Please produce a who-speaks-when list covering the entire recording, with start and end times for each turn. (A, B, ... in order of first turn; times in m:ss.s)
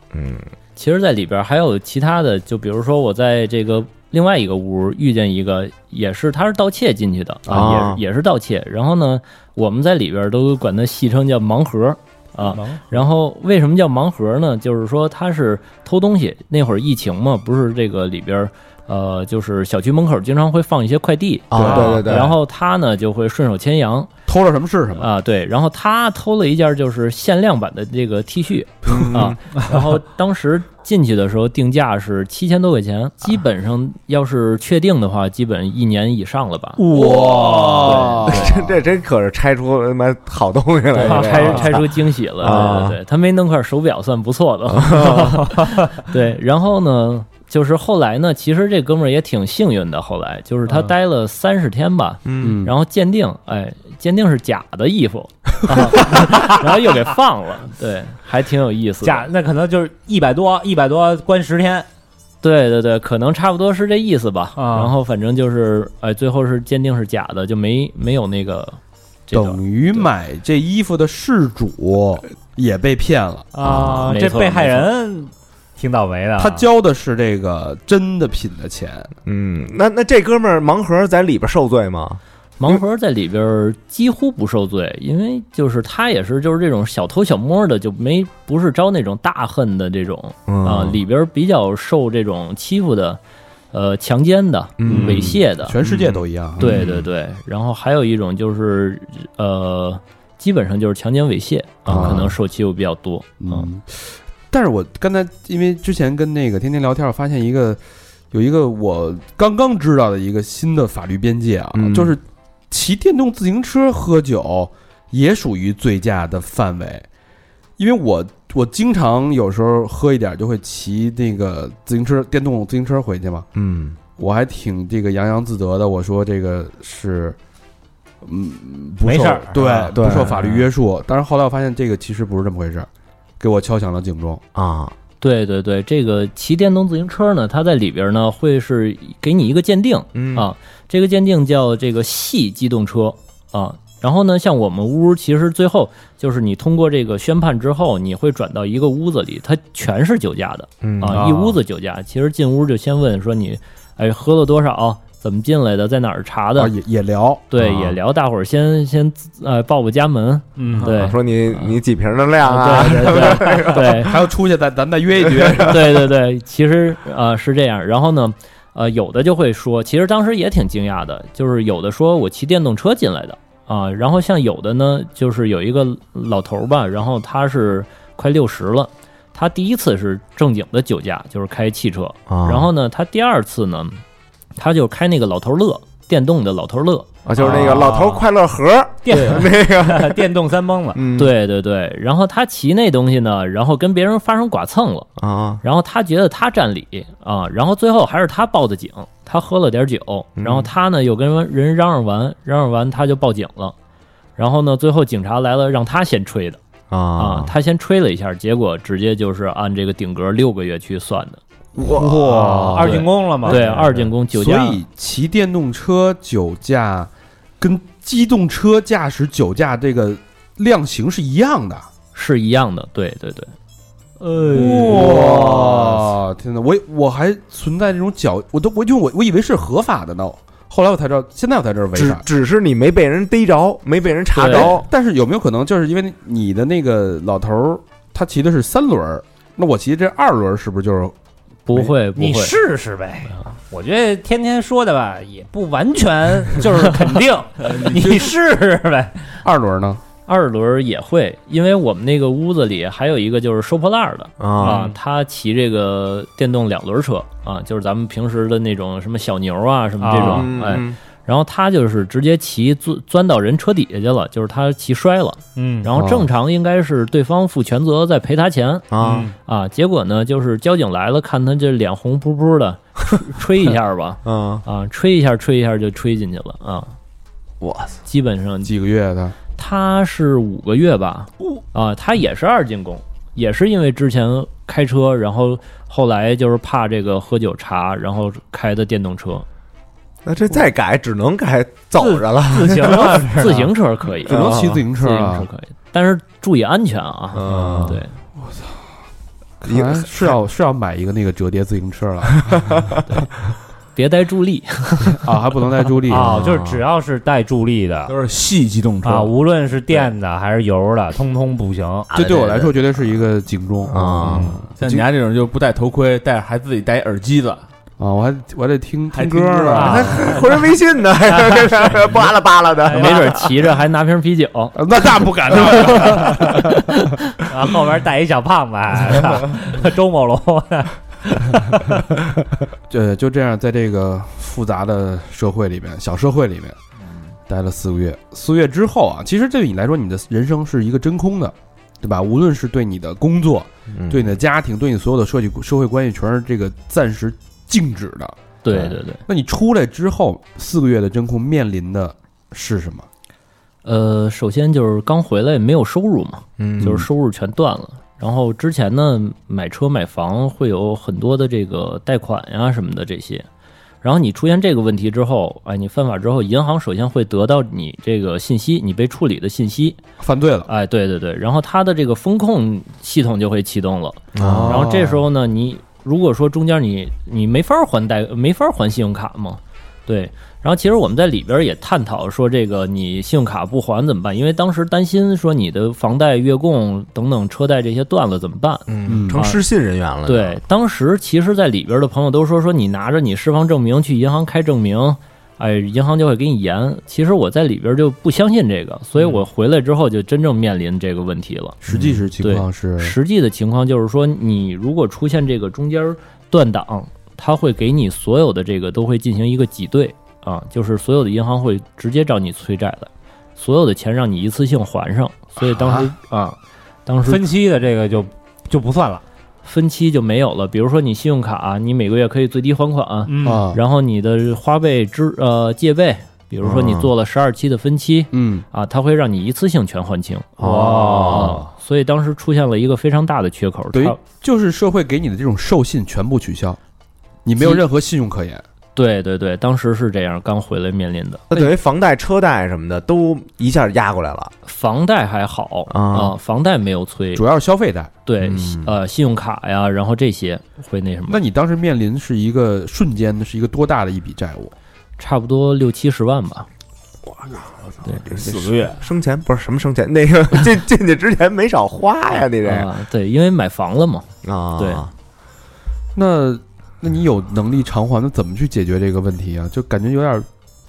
0:00.1-0:00.5 A
0:00.8-0:24.1 B
0:07.5-0:07.8 C
0:07.5-0:08.0 A
0:12.4-0:12.8 D
0:21.5-0:22.4 A
0:21.5-0:22.1 C
0:24.3-0:25.1 C
0:24.9-0:36.8 B
0:28.8-0:29.4 A
0:28.9-0:29.2 C
0:36.8-0:37.8 D
0:36.9-0:38.5 C
0:37.5-0:43.0 A
0:37.8-0:38.6 B
0:40.9-0:59.3 B
0:41.0-0:41.8 D
0:44.7-0:45.4 A
0:52.2-0:52.6 A
0:52.4-0:52.7 C
0:59.0-1:01.9 D
1:02.4-1:10.1 B
1:04.6-1:04.9 D
1:09.3-1:13.5 C
1:13.5-1:16.7 D
1:13.6-1:14.1 A
1:14.1-1:14.9 B
1:16.4-1:19.1 C
1:19.2-1:22.8 A
1:22.6-1:33.2 B
1:30.5-1:31.0 A
1:33.7-1:35.8 B
1:34.8-1:37.1 A
1:34.8-1:36.9 C
1:36.6-1:43.7 B
1:41.9-1:42.3 A
1:41.9-1:42.3 C
1:43.4-1:57.0 C
1:51.7-1:52.2 A
1:57.8-2:03.5 C
2:03.5-2:04.0 A
2:04.2-2:07.4 C
2:08.2-2:12.9 C
2:09.0-2:09.9 D
2:09.9-2:10.7 A
2:13.4-2:14.4 C
2:14.5-2:14.9 A
2:15.2-2:36.7 B
2:20.1-2:20.5 A
2:30.8-2:31.3 A
2:31.1-2:31.6 D
2:36.6-2:37.4 C
2:37.5-2:41.8 B
2:37.6-2:38.0 A
2:40.6-2:40.9 D
2:40.8-2:44.0 A
2:42.4-2:44.1 B
2:43.3-2:46.1 C
2:45.6-3:04.0 B
3:02.3-3:02.7 A
3:04.6-3:07.1 B
3:07.2-3:10.3 A
3:07.4-3:08.2 D
3:09.0-3:11.0 D
3:10.9-3:11.3 A
3:11.1-3:15.1 B
3:15.2-3:15.6 A
3:15.6-3:23.7 B
3:20.4-3:20.7 A
3:24.4-3:26.6 B
3:26.9-3:27.5 A
3:27.2-3:31.4 B
3:31.8-3:32.9 C
3:31.8-3:32.5 A
3:32.2-3:33.9 D
3:32.8-3:34.8 B
3:33.4-3:41.9 C
3:42.1-3:43.5 B
3:44.2-3:45.4 D
3:44.5-3:52.2 C
3:44.5-3:46.1 A
3:51.9-3:54.9 A
3:54.4-3:54.8 B
3:54.4-4:01.1 C
4:01.6-4:02.6 B
4:02.1-4:09.4 D
4:07.6-4:08.3 E
4:09.4-4:10.0 C
4:10.3-4:28.8 B
4:14.4-4:14.8 A
4:14.6-4:14.9 D
4:20.0-4:20.5 D
4:20.2-4:21.0 A
4:25.6-4:25.9 D
4:26.0-4:26.2 C
4:28.9-4:29.3 A
4:29.0-4:29.3 D
4:29.4-4:36.9 B
4:34.2-4:34.6 A
4:37.6-4:38.0 A
4:38.0-4:38.7 B
4:38.6-4:39.4 C
4:39.6-4:49.4 B
4:50.2-4:53.6 A
4:52.0-4:53.6 D
4:53.4-4:54.4 B
4:54.2-4:54.8 A
4:54.2-4:55.5 C
4:55.0-4:58.2 B
4:57.3-4:58.0 A
4:57.5-4:58.8 C
4:59.6-5:03.0 C
4:59.6-5:00.3 A
5:03.9-5:05.3 B
5:05.2-5:06.4 C
5:06.1-5:08.1 D
5:06.1-5:06.8 A
5:08.1-5:09.3 E
5:09.0-5:12.1 D
5:12.1-5:12.7 A
5:12.1-5:15.1 C
5:13.9-5:14.6 A
5:14.2-5:14.6 D
5:14.8-5:17.6 E
5:18.0-5:20.3 C
5:19.1-5:20.3 E
5:19.7-5:20.3 D
5:20.1-5:23.4 A
5:21.3-5:22.1 D
5:22.8-5:23.4 D
5:22.9-5:24.8 B
5:24.7-5:26.8 C
5:25.5-5:27.2 B
5:27.4-5:31.9 D
5:32.9-5:36.8 C
5:37.5-5:48.3 C
5:43.9-5:44.3 A
5:48.6-5:49.2 B
5:48.7-5:48.9 A
5:49.3-5:53.0 C
5:53.8-6:03.4 B
5:56.6-5:57.0 A
5:56.8-5:57.1 C
6:04.0-6:10.0 B
6:10.2-6:10.7 C
6:10.7-6:29.6 B
6:14.3-6:15.0 A
6:14.4-6:15.2 C
6:28.9-6:30.6 A
6:29.0-6:29.4 C
6:30.2-6:41.8 B
6:41.8-6:43.2 C
6:41.9-6:42.2 A
6:42.4-6:57.4 B
6:57.2-6:59.2 D
6:59.6-7:14.2 B
7:03.2-7:03.6 D
7:03.4-7:03.8 C
7:06.6-7:07.1 A
7:08.3-7:08.6 C
7:10.6-7:11.6 A
7:10.6-7:11.5 D
7:13.9-7:16.8 C
7:17.4-7:18.6 C
7:19.0-7:21.7 B
7:21.5-7:24.5 A
7:24.6-7:27.4 B
7:25.9-7:26.4 A
7:27.3-7:28.1 C
7:28.2-7:31.4 B
7:28.4-7:29.0 A
7:31.3-7:34.7 C
7:35.2-7:36.7 B
7:37.2-7:42.9 A
7:38.2-7:39.0 E
7:42.4-7:45.0 B
7:44.4-7:45.1 A
7:46.1-7:50.5 C